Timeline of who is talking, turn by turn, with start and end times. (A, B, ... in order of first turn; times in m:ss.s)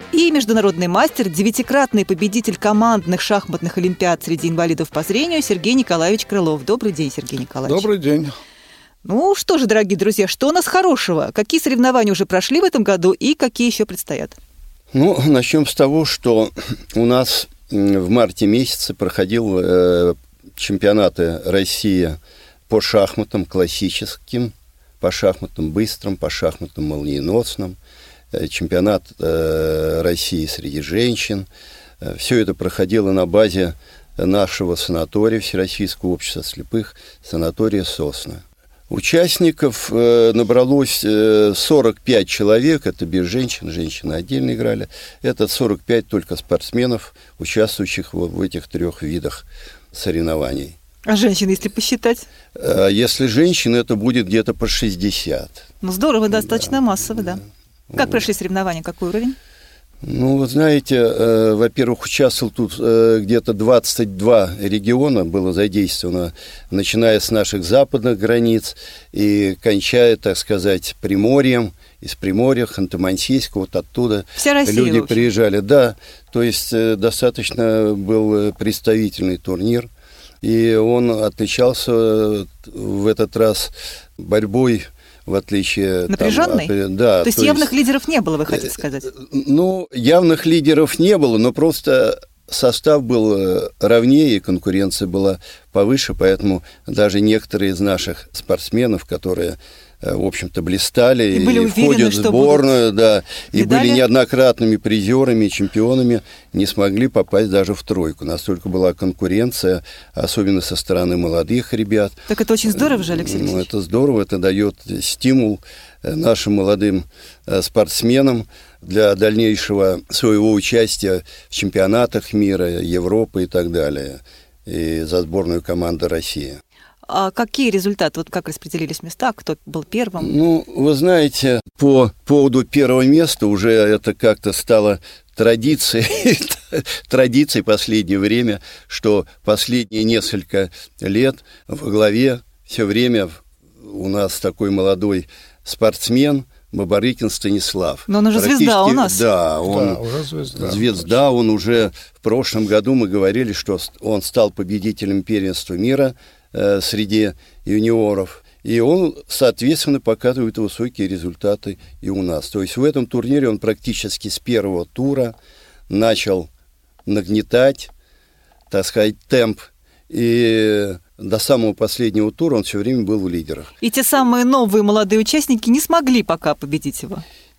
0:00.1-0:07.9 A
0:07.6-0:08.3 B
0:09.0-0:14.4 A
0:14.9-0:22.2 C
0:22.7-0:27.8 C
0:28.3-0:31.5 C
0:32.0-0:50.8 C
0:51.1-0:52.3 A
0:52.6-0:55.7 C
0:55.8-0:57.4 A
0:56.3-0:56.8 C
0:57.9-0:58.2 C
0:58.0-0:59.4 A
1:00.0-1:19.9 C
1:14.4-1:15.3 A
1:20.4-1:27.7 C
1:26.1-1:26.7 A
1:27.2-1:29.1 A
1:28.5-2:06.6 C
1:41.3-1:42.7 A
1:43.5-1:44.0 A
1:52.3-1:53.7 A
2:07.1-2:10.3 A
2:10.2-2:30.0 C
2:28.1-2:29.2 A
2:29.7-2:31.1 B
2:30.5-2:45.3 C
2:45.9-2:46.5 C
2:47.1-2:47.9 C
2:48.7-2:53.7 C
2:53.8-2:57.2 A